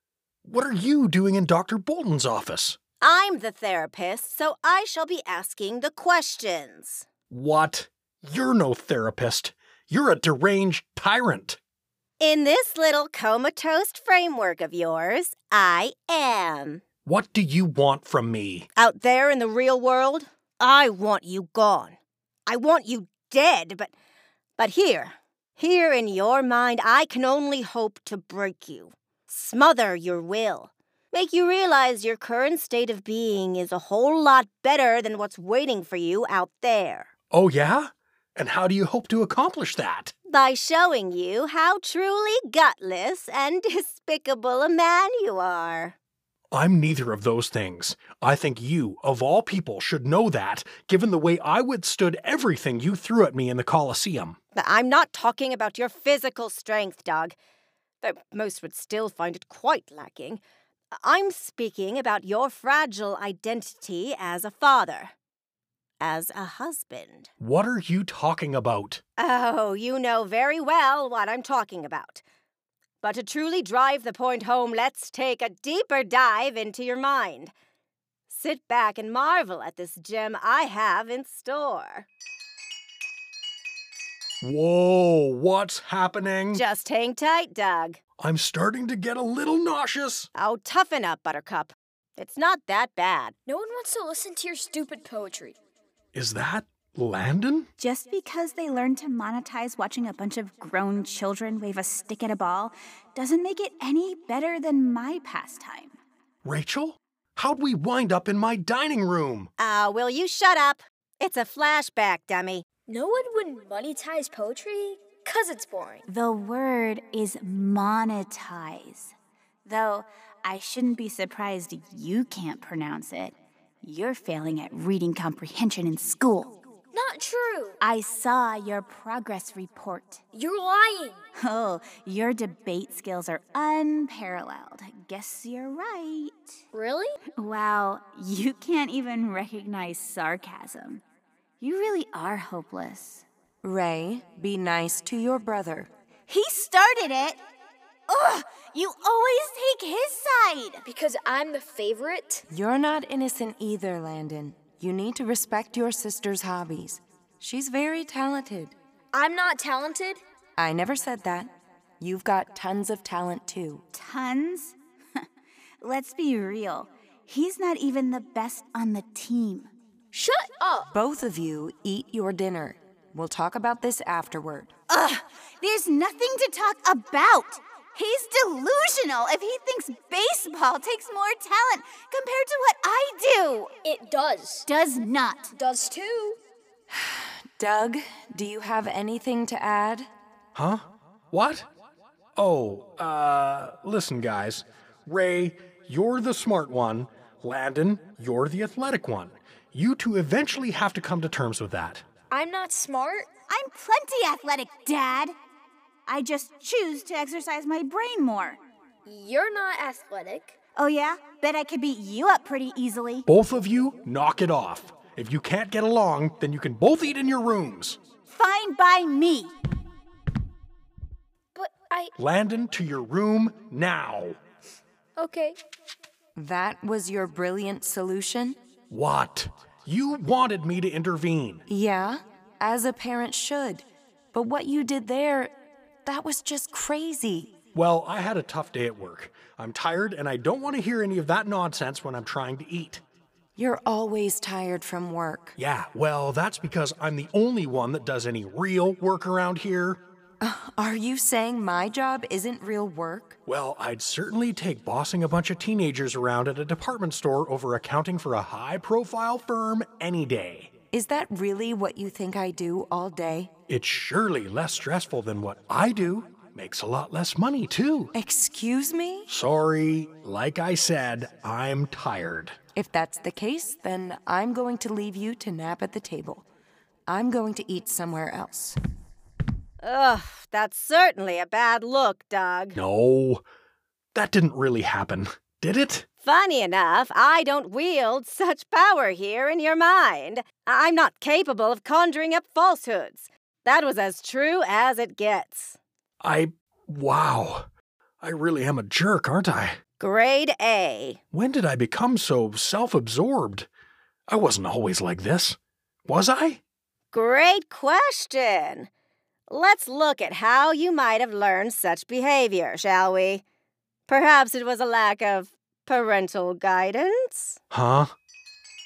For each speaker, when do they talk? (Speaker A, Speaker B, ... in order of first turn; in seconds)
Speaker A: 0.4-2.8, 7.3-11.6, 17.1-18.7, 37.3-40.1, 46.5-54.4, 67.4-69.0, 84.4-86.6, 88.2-90.3, 96.1-97.7, 106.4-109.5, 190.6-191.7, 192.4-202.0, 213.3-218.0, 222.2-224.4, 228.9-231.6, 237.7-243.0, 245.6-250.0, 253.4-260.7, 263.7-268.1, 269.3-272.6, 282.8-283.4, 284.1-286.1, 296.2-297.6, 298.2-299.8, 301.3-303.7, 304.3-306.6, 317.7-318.1
Speaker B: 3.0-7.1, 12.2-16.8, 18.8-23.9, 24.6-37.1, 40.3-45.9, 54.5-57.4, 58.0-60.4, 61.0-65.1, 66.0-67.3, 69.2-72.2, 73.0-77.5, 78.3-82.1, 86.5-88.0, 90.3-93.4, 109.6-112.6, 279.8-282.8, 286.2-295.8, 300.0-301.2, 307.1-308.9, 309.5-313.4, 314.1-317.6
Speaker C: 93.5-95.6, 112.9-116.0, 126.9-127.8, 130.3-131.2, 136.7-137.1, 150.8-152.4, 159.1-160.2, 170.1-170.9, 183.8-184.7, 185.5-186.4, 202.3-203.3, 209.1-210.6, 221.6-222.1, 225.2-225.6
Speaker D: 97.8-106.0, 116.1-119.1, 119.6-126.5, 127.8-130.2, 131.4-136.6, 137.4-141.0, 141.6-143.2, 146.3-147.4, 148.1-150.8, 163.9-165.2, 165.8-169.7, 174.9-183.7, 184.7-185.5, 203.5-205.3, 206.1-208.6, 210.8-213.2, 218.3-219.5
Speaker E: 143.6-145.9, 152.5-158.8, 160.6-163.8, 170.9-174.7, 186.9-190.1, 226.4-228.6, 231.7-235.5, 236.1-237.5, 243.6-245.6, 250.4-253.4, 260.9-263.5, 268.1-269.3, 272.8-276.4, 277.1-278.8